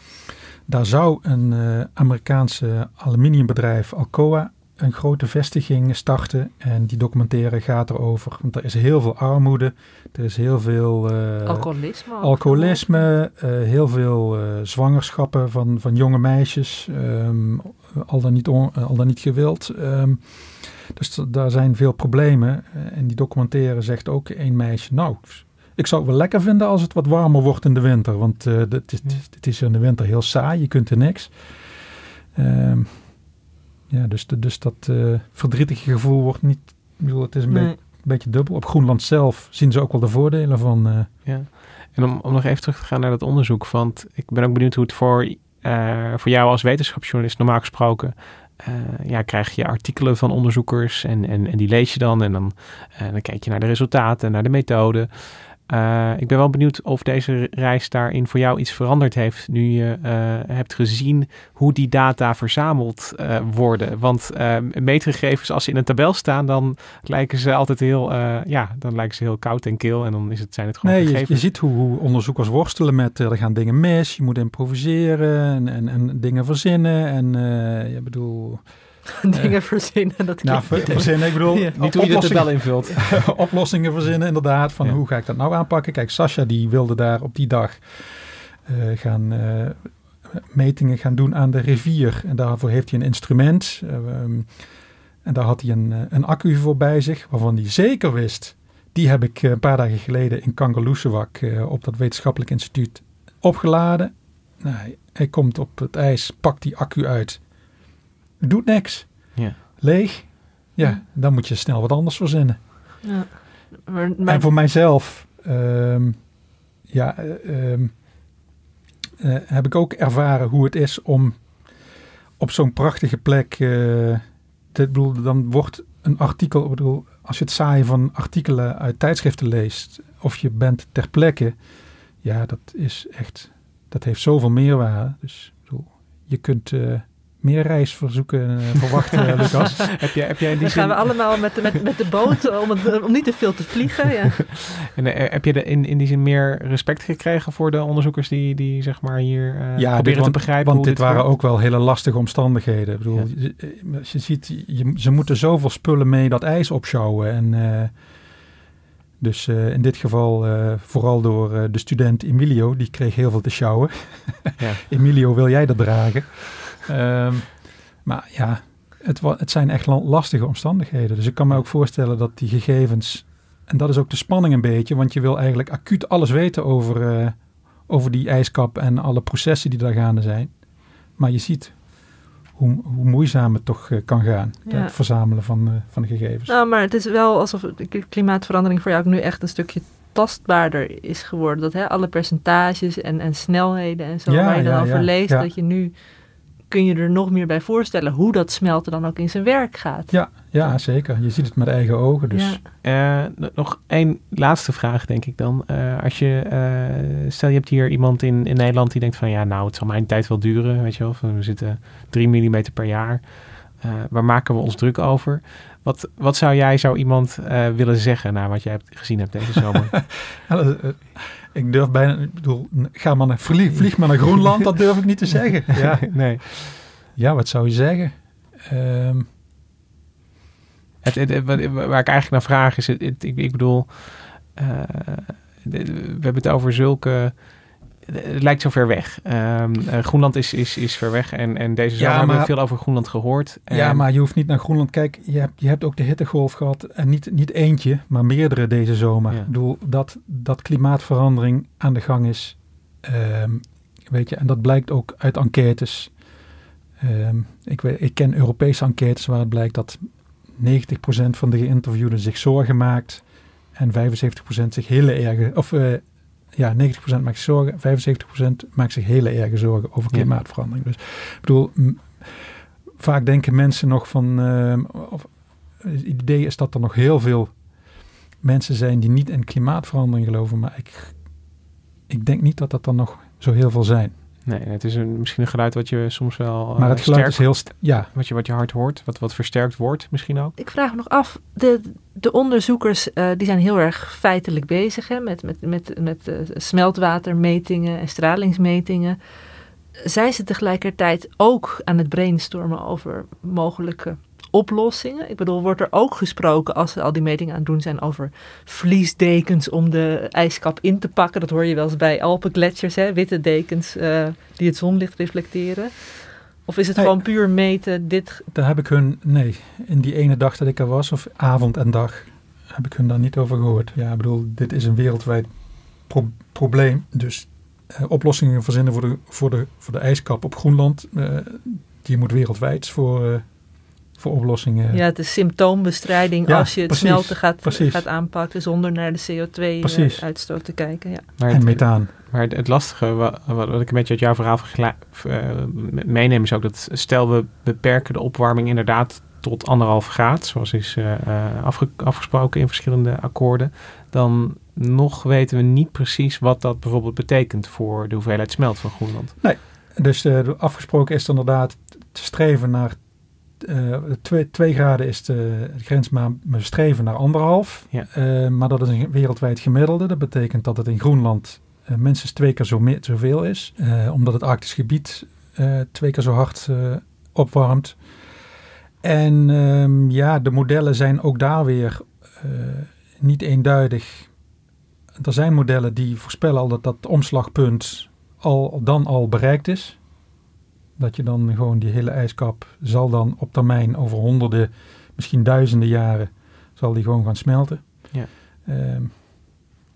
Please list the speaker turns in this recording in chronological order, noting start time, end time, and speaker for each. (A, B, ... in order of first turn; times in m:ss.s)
0:00.7-0:31.8 A
0:11.4-0:13.0 B
0:32.4-0:33.4 A
0:33.9-0:41.1 A
0:37.5-0:37.8 B
0:41.2-1:11.4 C
1:10.8-1:34.5 A
1:19.2-1:21.7 B
1:21.8-1:23.2 C
1:35.2-1:47.5 A
1:48.4-1:52.6 A
1:53.0-1:54.5 B
1:54.3-1:56.3 A
1:56.9-1:58.0 A
1:59.2-2:11.6 A
2:12.2-2:20.1 A
2:19.6-2:21.3 C
2:20.6-2:24.4 B
2:25.0-2:31.3 C
2:29.8-2:38.0 A
2:39.2-3:00.5 A
2:44.6-2:44.9 C
3:01.1-3:02.0 A
3:02.6-3:06.6 A
3:04.7-3:04.9 B
3:06.5-3:15.9 B
3:14.3-3:15.5 A
3:16.7-3:20.7 B
3:20.1-3:22.6 A
3:22.3-3:22.6 B
3:22.8-3:40.0 C
3:40.3-3:49.3 A
3:43.7-3:44.7 C
3:45.7-3:46.8 C
3:51.0-4:04.1 C
4:02.0-4:02.6 A
4:03.7-4:16.2 A
4:17.0-4:41.5 A
4:42.1-4:44.1 A
4:44.4-4:50.6 C
4:46.8-4:48.1 A
4:50.6-4:59.2 B
5:00.0-5:18.5 B
5:17.0-5:17.2 A
5:18.5-5:33.6 A
5:34.1-5:35.0 A
5:34.9-5:41.3 B
5:36.4-5:38.1 A
5:39.8-5:40.2 A
5:41.4-5:59.4 C
5:41.5-5:42.1 A
5:59.4-6:03.0 A
6:03.6-6:18.2 A
6:19.0-6:24.3 A
6:25.2-6:30.0 A
6:31.0-6:39.6 A